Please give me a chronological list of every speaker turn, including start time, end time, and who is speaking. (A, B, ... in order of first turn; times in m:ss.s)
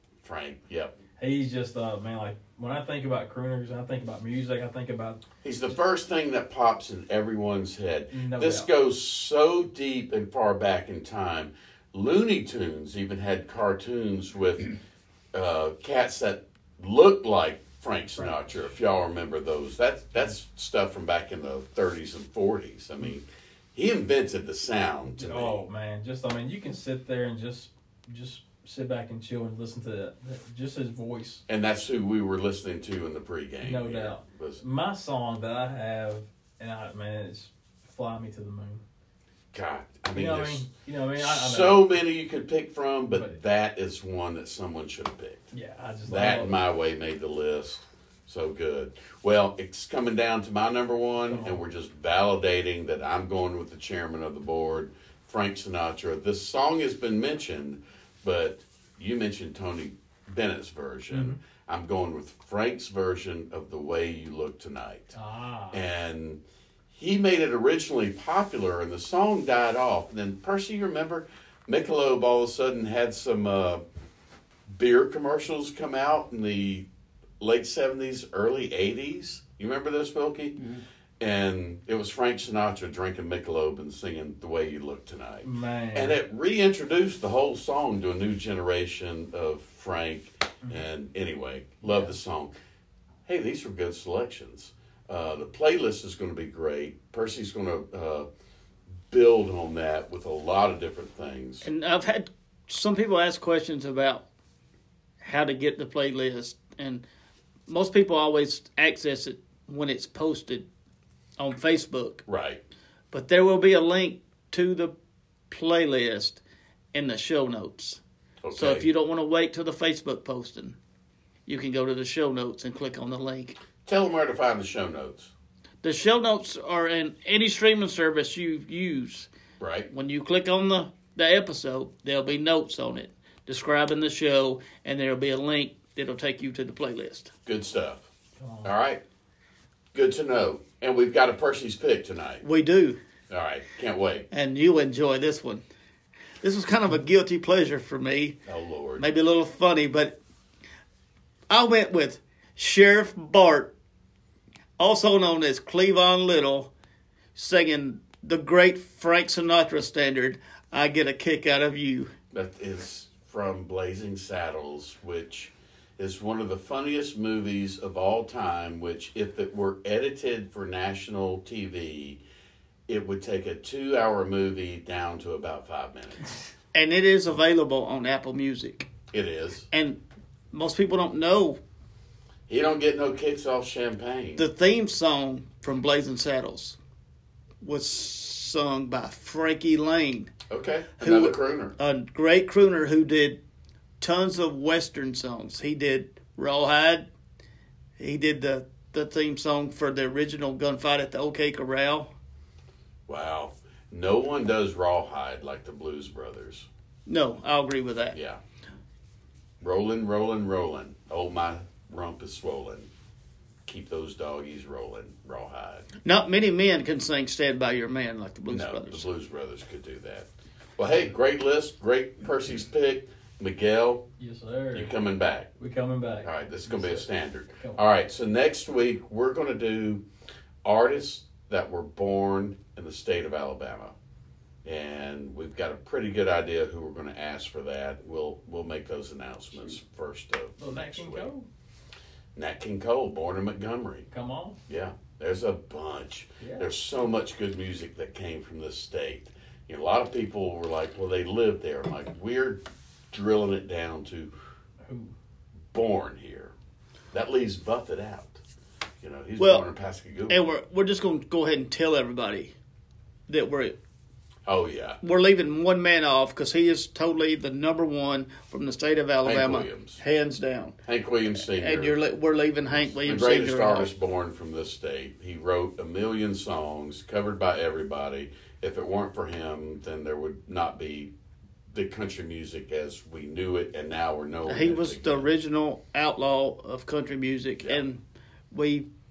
0:00.2-0:01.0 A
0:01.2-0:05.2 B
0:05.4-0:14.8 A
0:08.1-0:08.7 B
0:15.3-0:23.2 A
0:23.8-0:25.6 A
0:25.1-0:31.4 B
0:31.5-0:34.6 A
0:33.6-0:38.8 B
0:39.5-0:40.6 A
0:40.1-0:41.8 B
0:41.2-0:45.4 A
0:43.1-0:43.4 B
0:45.5-0:46.6 B
0:46.1-1:05.2 A
0:51.3-0:51.6 B
1:01.1-1:01.4 B
1:05.1-1:05.8 B
1:05.7-1:13.8 A
1:14.7-1:16.9 A
1:17.4-1:32.5 A
1:25.4-1:26.2 B
1:31.8-1:32.1 B
1:33.3-1:38.3 A
1:39.1-1:41.7 A
1:41.6-1:44.2 C
1:45.2-1:47.0 C
1:47.7-1:50.7 C
1:51.4-1:52.2 C
1:52.3-1:52.6 A
1:53.1-1:54.9 C
1:55.5-1:56.4 C
1:56.9-1:58.0 C
1:58.4-1:58.9 A
1:58.5-2:00.8 C
2:01.5-2:03.6 C
2:03.8-2:05.3 A
2:05.8-2:09.3 C
2:09.6-2:09.9 A
2:09.9-2:17.3 C
2:17.5-2:18.1 A
2:18.4-2:18.7 B
2:18.6-2:19.0 A
2:19.9-2:22.4 A
2:22.4-2:23.0 C
2:23.3-2:24.3 A
2:24.3-2:25.6 C
2:26.4-2:28.4 C
2:28.5-2:29.0 A
2:29.0-2:30.2 C
2:31.5-2:33.7 C
2:34.8-2:36.7 C
2:37.4-2:42.1 C
2:42.3-2:52.2 A
2:52.9-2:56.4 A
2:56.7-2:58.9 C
2:59.1-2:59.7 A
2:59.7-3:00.0 C
3:00.5-3:01.6 C
3:02.5-3:04.5 A
3:04.4-3:06.8 C
3:07.6-3:10.3 C
3:10.5-3:11.8 A
3:11.0-3:13.4 C
3:14.0-3:17.1 C
3:18.0-3:22.1 C
3:23.1-3:26.7 A
3:27.1-3:28.2 C
3:28.1-3:28.4 A
3:29.6-3:32.9 A
3:33.7-3:35.9 A
3:36.0-3:39.1 C
3:38.5-3:44.0 A
3:44.2-3:44.9 B
3:44.7-3:45.5 A
3:45.6-3:47.8 B
3:46.2-3:50.0 A
3:50.6-3:54.0 A
3:54.6-4:01.3 A
4:00.6-4:01.5 B
4:02.4-4:04.1 A
4:04.1-4:04.6 B
4:04.7-4:14.3 A
4:06.4-4:06.7 B
4:14.8-4:15.1 B
4:15.7-4:16.5 A
4:17.1-4:18.4 A
4:19.0-4:20.4 A
4:19.4-4:19.6 C
4:20.3-4:22.5 C
4:23.3-4:23.8 C
4:24.5-4:25.0 A
4:25.0-4:30.8 C
4:29.2-4:30.0 A
4:30.8-4:32.0 A
4:31.5-4:33.9 C
4:32.7-4:41.1 A
4:41.7-4:45.3 A
4:44.5-4:48.0 C
4:48.5-4:48.9 C